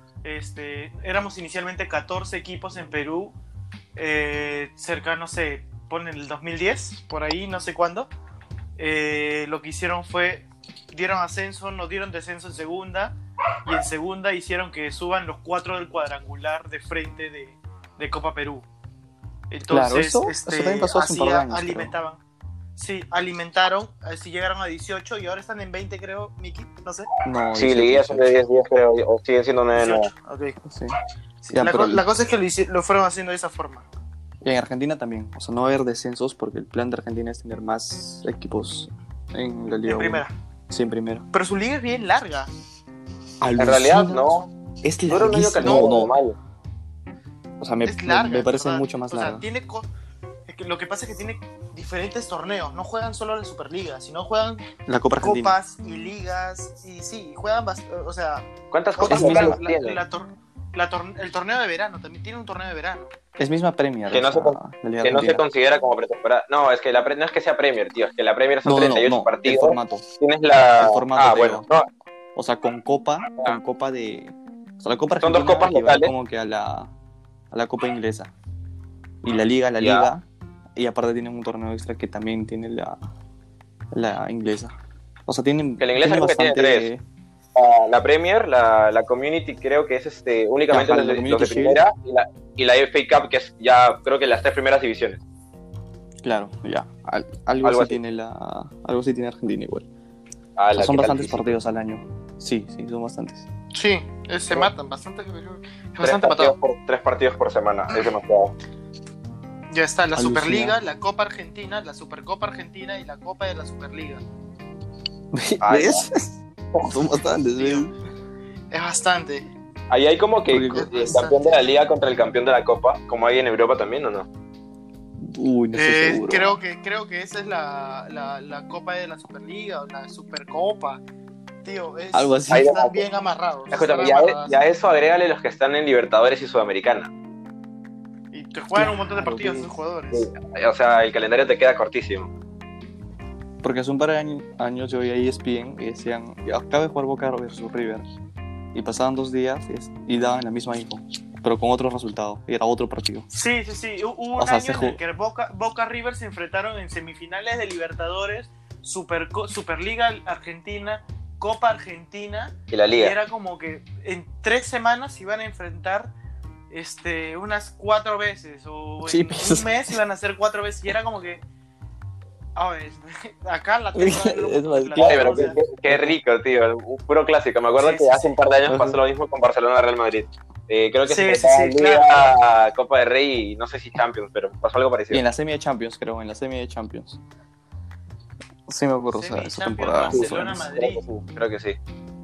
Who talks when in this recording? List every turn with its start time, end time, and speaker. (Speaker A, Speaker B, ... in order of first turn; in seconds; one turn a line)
Speaker A: 0.2-3.3
Speaker A: 4.0-8.1
Speaker A: 8.8-18.6
Speaker A: 19.5-22.2
Speaker B: 19.7-21.9
Speaker A: 22.8-27.1
Speaker B: 27.2-28.3
Speaker C: 27.5-30.1
Speaker A: 29.7-30.6
Speaker B: 30.6-31.0
Speaker A: 31.4-33.9
Speaker B: 31.5-32.0
Speaker B: 34.4-41.2
Speaker A: 39.9-40.3
Speaker A: 41.3-42.5
Speaker B: 43.4-46.2
Speaker C: 43.6-44.5
Speaker C: 45.1-46.4
Speaker A: 45.6-46.1
Speaker B: 47.6-49.4
Speaker A: 47.8-49.9
Speaker A: 50.5-54.7
Speaker B: 54.9-55.5
Speaker A: 55.2-63.1
Speaker C: 58.7-60.0
Speaker B: 59.1-59.6
Speaker B: 63.4-65.4
Speaker C: 64.1-71.9
Speaker B: 68.6-70.0
Speaker B: 70.8-71.7
Speaker B: 72.3-76.9
Speaker C: 75.2-76.1
Speaker B: 77.5-78.3
Speaker B: 79.2-80.2
Speaker C: 79.8-80.1
Speaker B: 80.8-83.0
Speaker B: 83.9-84.7
Speaker B: 85.3-87.0
Speaker C: 85.8-86.9
Speaker C: 87.5-95.2
Speaker B: 90.7-91.8
Speaker B: 96.2-99.9
Speaker C: 97.6-98.0
Speaker C: 100.6-101.5
Speaker B: 100.7-103.5
Speaker A: 103.7-106.5
Speaker C: 106.0-108.5
Speaker A: 109.7-114.2
Speaker B: 110.1-110.8
Speaker B: 115.3-117.9
Speaker C: 115.6-116.0
Speaker A: 117.6-117.9
Speaker A: 118.7-119.5
Speaker C: 119.9-124.3
Speaker B: 120.5-121.3
Speaker A: 120.7-121.4
Speaker B: 125.2-126.5
Speaker A: 125.7-131.0
Speaker A: 131.6-134.6
Speaker B: 132.1-132.9
Speaker C: 132.5-133.0
Speaker C: 133.7-137.1
Speaker A: 138.3-140.3
Speaker B: 138.7-139.7
Speaker C: 140.1-142.3
Speaker B: 143.6-148.0
Speaker B: 148.7-153.3
Speaker A: 153.3-166.1
Speaker B: 154.4-155.0
Speaker C: 162.7-163.1
Speaker A: 166.7-171.4
Speaker B: 169.0-170.0
Speaker A: 172.6-175.6
Speaker B: 173.9-176.2
Speaker C: 175.0-185.2
Speaker A: 177.8-178.3
Speaker B: 178.7-179.0
Speaker A: 181.1-182.3
Speaker B: 185.1-187.2
Speaker B: 188.7-190.7
Speaker A: 189.1-191.0
Speaker C: 190.1-191.8